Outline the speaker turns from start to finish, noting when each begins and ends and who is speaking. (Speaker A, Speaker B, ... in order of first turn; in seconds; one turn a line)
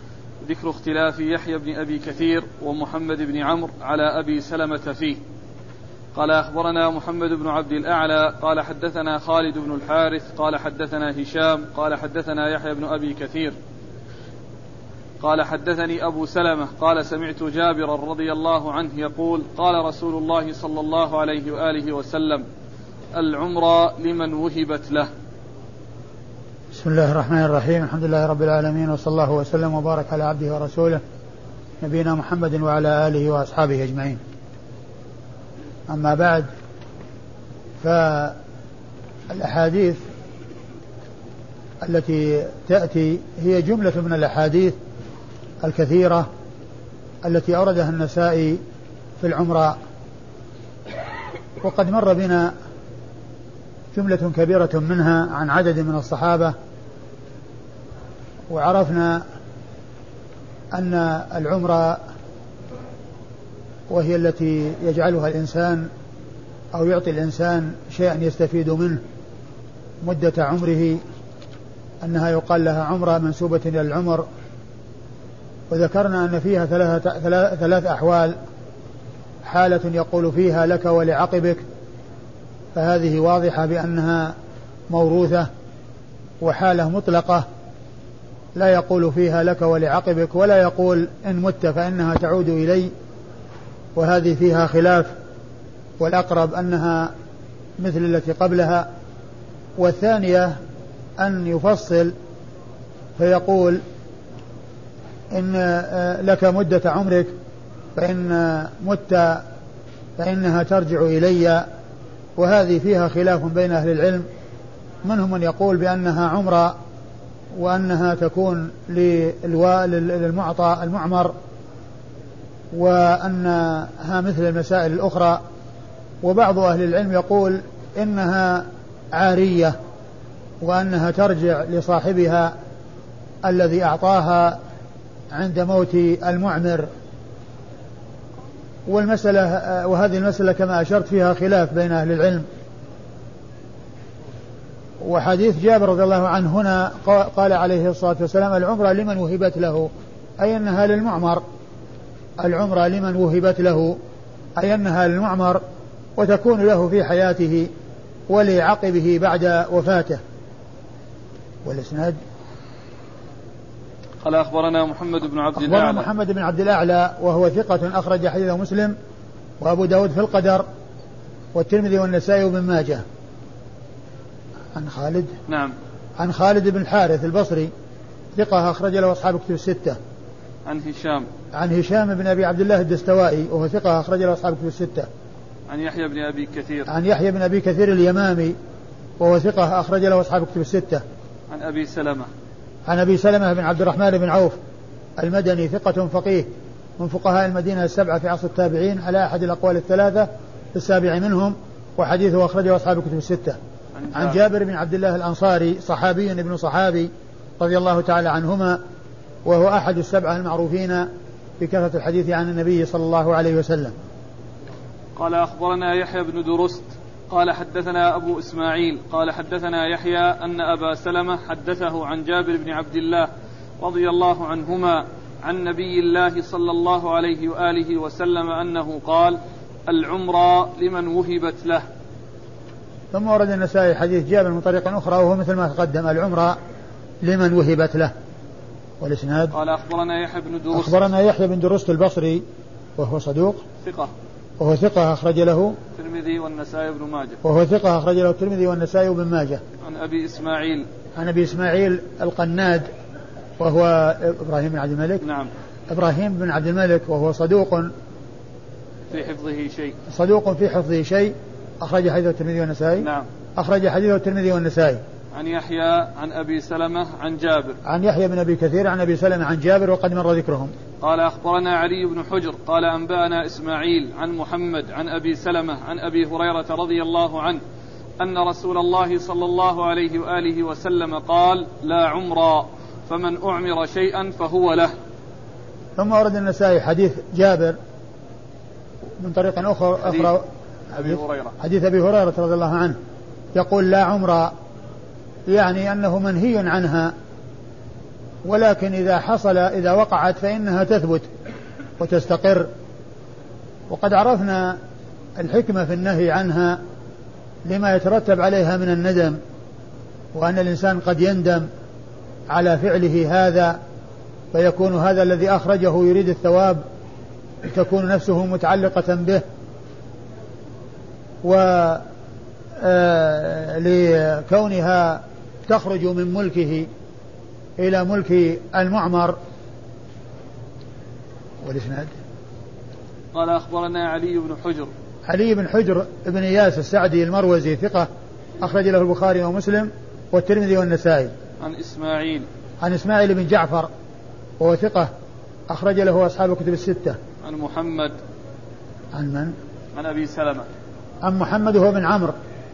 Speaker A: 0.4-5.2
Speaker A: 6.1-13.6
Speaker A: 15.2-22.4
Speaker A: 23.1-25.1
Speaker B: 26.7-31.0
Speaker B: 31.8-34.2
Speaker B: 35.9-36.5
Speaker B: 37.8-38.4
Speaker B: 39.3-40.0
Speaker B: 41.8-44.8
Speaker B: 45.6-46.3
Speaker B: 47.2-48.6
Speaker B: 49.2-49.8
Speaker B: 51.6-52.5
Speaker B: 53.9-56.5
Speaker B: 58.5-59.2
Speaker B: 60.7-62.0
Speaker B: 63.9-65.9
Speaker B: 66.7-69.0
Speaker B: 70.0-71.0
Speaker B: 72.0-74.3
Speaker B: 75.7-78.3
Speaker B: 79.4-81.6
Speaker B: 82.8-84.3
Speaker B: 84.9-85.5
Speaker B: 86.4-87.5
Speaker B: 88.5-92.9
Speaker B: 94.0-95.1
Speaker B: 96.0-97.1
Speaker B: 97.8-98.9
Speaker B: 99.8-100.5
Speaker B: 101.2-102.1
Speaker B: 103.2-103.8
Speaker B: 105.3-107.3
Speaker B: 107.9-109.4
Speaker B: 110.2-111.7
Speaker B: 112.4-114.2
Speaker B: 115.0-116.8
Speaker B: 117.5-121.3
Speaker B: 122.7-125.4
Speaker B: 126.2-129.8
Speaker B: 130.6-132.5
Speaker B: 133.4-134.6
Speaker B: 135.3-136.9
Speaker B: 138.9-142.5
Speaker B: 145.0-151.4
Speaker B: 152.4-154.0
Speaker B: 154.6-155.6
Speaker B: 156.2-157.7
Speaker B: 158.3-160.2
Speaker B: 161.7-162.2
Speaker A: 164.2-166.1
Speaker B: 165.6-168.9
Speaker B: 169.6-170.7
Speaker B: 171.5-173.0
Speaker B: 174.8-175.3
Speaker A: 175.5-175.8
Speaker B: 176.2-177.7
Speaker B: 178.3-180.0
Speaker A: 180.7-181.3
Speaker B: 181.5-185.1
Speaker A: 185.7-186.9
Speaker B: 186.9-188.6
Speaker B: 189.2-191.0
Speaker A: 191.5-192.3
Speaker B: 192.9-194.6
Speaker B: 195.2-203.6
Speaker A: 204.0-204.4
Speaker B: 204.1-208.8
Speaker B: 209.4-211.1
Speaker B: 211.6-213.9
Speaker A: 215.2-223.3
Speaker A: 223.8-231.8
Speaker B: 233.1-236.6
Speaker B: 237.2-238.1
Speaker B: 239.0-239.5
Speaker A: 239.5-241.0
Speaker B: 240.7-242.4
Speaker B: 243.0-243.6
Speaker A: 243.8-244.1
Speaker B: 244.6-245.8
Speaker A: 246.0-247.4
Speaker B: 247.4-249.6
Speaker A: 249.8-250.9
Speaker B: 251.2-252.9
Speaker B: 253.6-255.2
Speaker A: 255.2-255.5
Speaker B: 255.9-257.9
Speaker A: 259.1-260.0
Speaker B: 260.1-265.0
Speaker A: 263.0-263.3
Speaker A: 265.3-267.8
Speaker B: 267.9-270.7
Speaker A: 271.0-277.6
Speaker A: 278.2-284.9
Speaker B: 286.0-287.8
Speaker B: 289.2-293.0
Speaker A: 290.1-290.3
Speaker A: 291.0-291.6
Speaker B: 293.6-294.5
Speaker B: 295.5-297.1
Speaker B: 298.4-301.3
Speaker B: 302.0-302.7
Speaker B: 303.9-304.8
Speaker B: 305.4-306.8
Speaker B: 307.6-309.4
Speaker B: 310.3-311.7
Speaker B: 312.5-313.8
Speaker B: 314.5-316.8
Speaker B: 317.6-319.4
Speaker B: 321.4-322.0
Speaker B: 322.8-326.9
Speaker B: 327.8-329.4
Speaker B: 331.6-332.1
Speaker A: 333.3-334.9
Speaker B: 335.2-338.1
Speaker B: 338.6-341.3
Speaker A: 341.6-342.5
Speaker B: 342.8-343.9
Speaker B: 344.6-345.1
Speaker B: 345.7-347.2
Speaker A: 347.4-348.1
Speaker B: 349.1-349.5
Speaker A: 349.9-350.7
Speaker B: 351.2-352.4